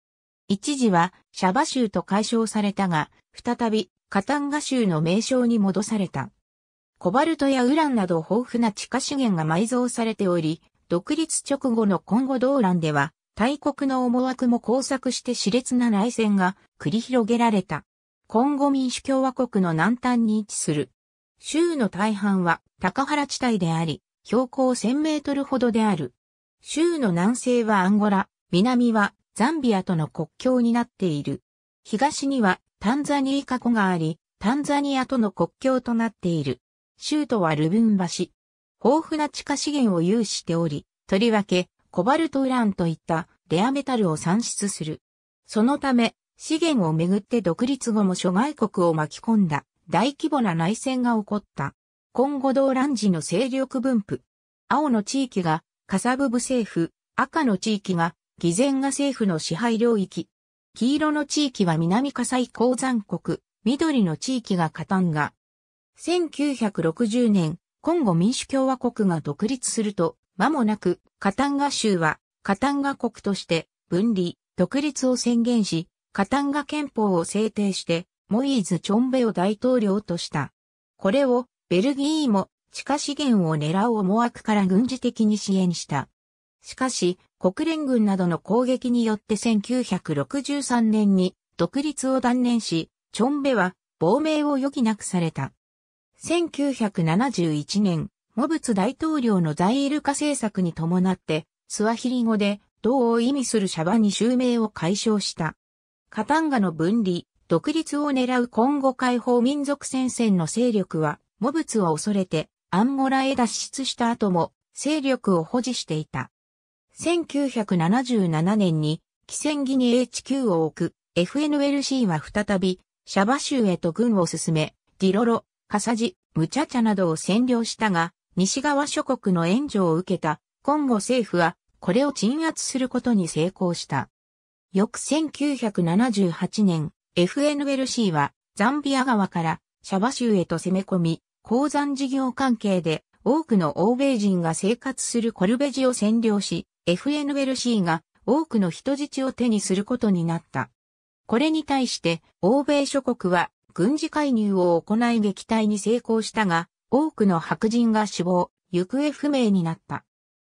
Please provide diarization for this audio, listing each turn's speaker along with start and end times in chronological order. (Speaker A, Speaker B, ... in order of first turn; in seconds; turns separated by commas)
Speaker A: 0.5-6.3, Speaker A: 7.0-65.3, Speaker A: 66.0-86.1, Speaker A: 86.6-95.5, Speaker A: 96.2-105.6, Speaker A: 106.1-116.3, Speaker A: 116.9-134.1, Speaker A: 134.7-150.7, Speaker A: 151.3-160.0